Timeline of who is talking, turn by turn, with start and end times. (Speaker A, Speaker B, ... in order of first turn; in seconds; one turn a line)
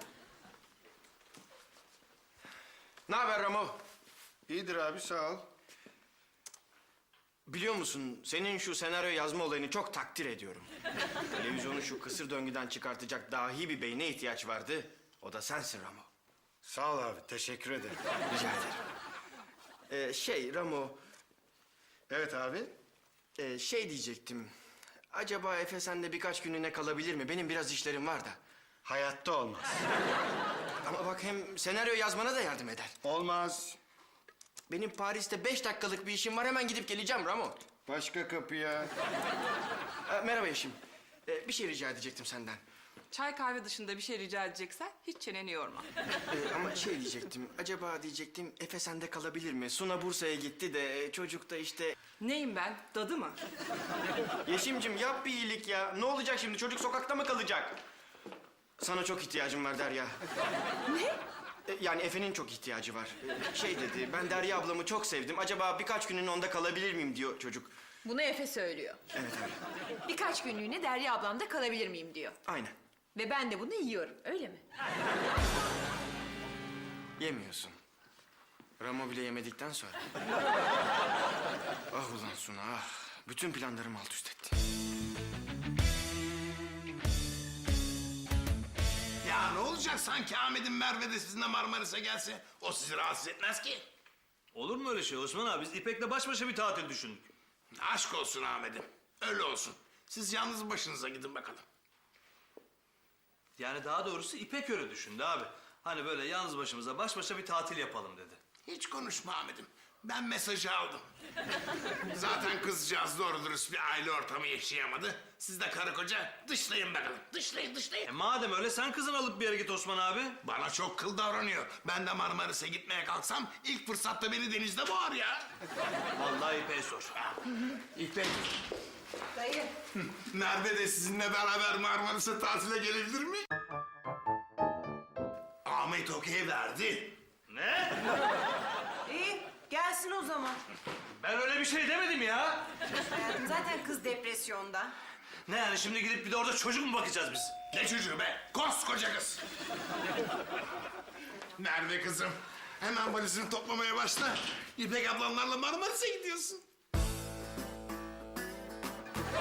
Speaker A: 3.1-3.8
Speaker B: 4.5-5.5
Speaker A: 7.5-10.7
Speaker A: 11.3-16.1
Speaker B: 16.6-18.0
Speaker A: 18.3-18.8
Speaker A: 19.9-21.0
Speaker B: 22.1-22.7
Speaker A: 23.4-24.5
Speaker A: 25.1-28.4
Speaker B: 28.8-29.8
Speaker A: 30.8-32.9
Speaker B: 33.0-33.8
Speaker A: 34.7-37.7
Speaker B: 37.9-38.9
Speaker A: 40.1-42.6
Speaker C: 43.1-45.9
Speaker A: 46.3-51.9
Speaker C: 52.2-53.4
Speaker A: 54.4-57.8
Speaker A: 58.8-60.2
Speaker D: 60.9-61.2
Speaker A: 61.7-67.7
Speaker D: 68.0-69.0
Speaker A: 69.1-69.6
Speaker D: 70.0-72.4
Speaker A: 72.4-72.7
Speaker D: 73.1-74.6
Speaker A: 77.2-77.8
Speaker A: 78.8-80.0
Speaker A: 81.9-84.6
Speaker E: 89.2-93.9
Speaker F: 94.5-97.3
Speaker E: 97.8-101.6
Speaker F: 103.6-108.4
Speaker E: 108.6-111.1
Speaker E: 112.1-118.1
Speaker F: 118.0-120.4
Speaker E: 120.4-125.5
Speaker F: 126.2-127.4
Speaker E: 127.9-128.5
Speaker G: 129.3-129.7
Speaker E: 129.9-133.4
Speaker E: 135.6-137.2
Speaker F: 137.5-138.0
Speaker G: 139.1-140.6
Speaker F: 141.2-142.7
Speaker G: 142.9-144.9
Speaker F: 145.4-147.5
Speaker E: 147.7-149.4
Speaker E: 151.6-156.6